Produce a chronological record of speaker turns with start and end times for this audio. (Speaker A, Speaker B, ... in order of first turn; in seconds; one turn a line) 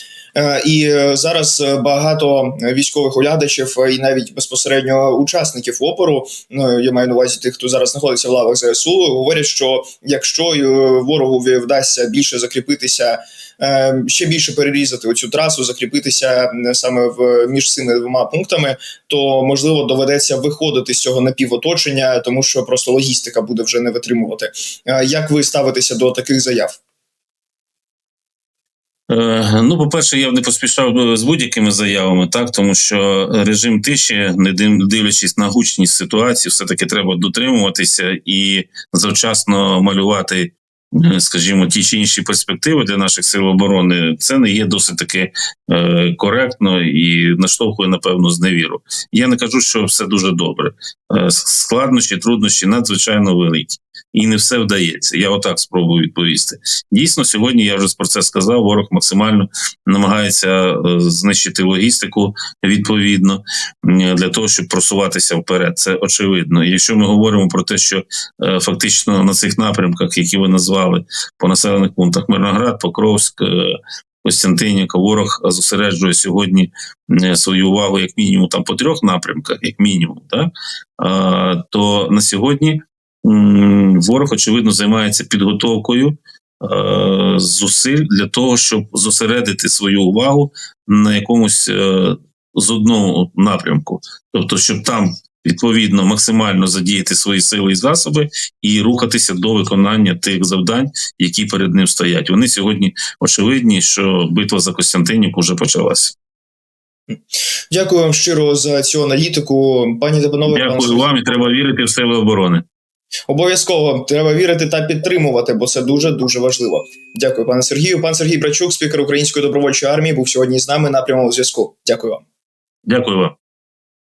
Speaker A: 0.3-26.8
Speaker B: 29.1-106.2
Speaker A: 107.7-111.2
Speaker B: 110.5-112.6
Speaker A: 113.3-122.2
Speaker B: 122.9-123.3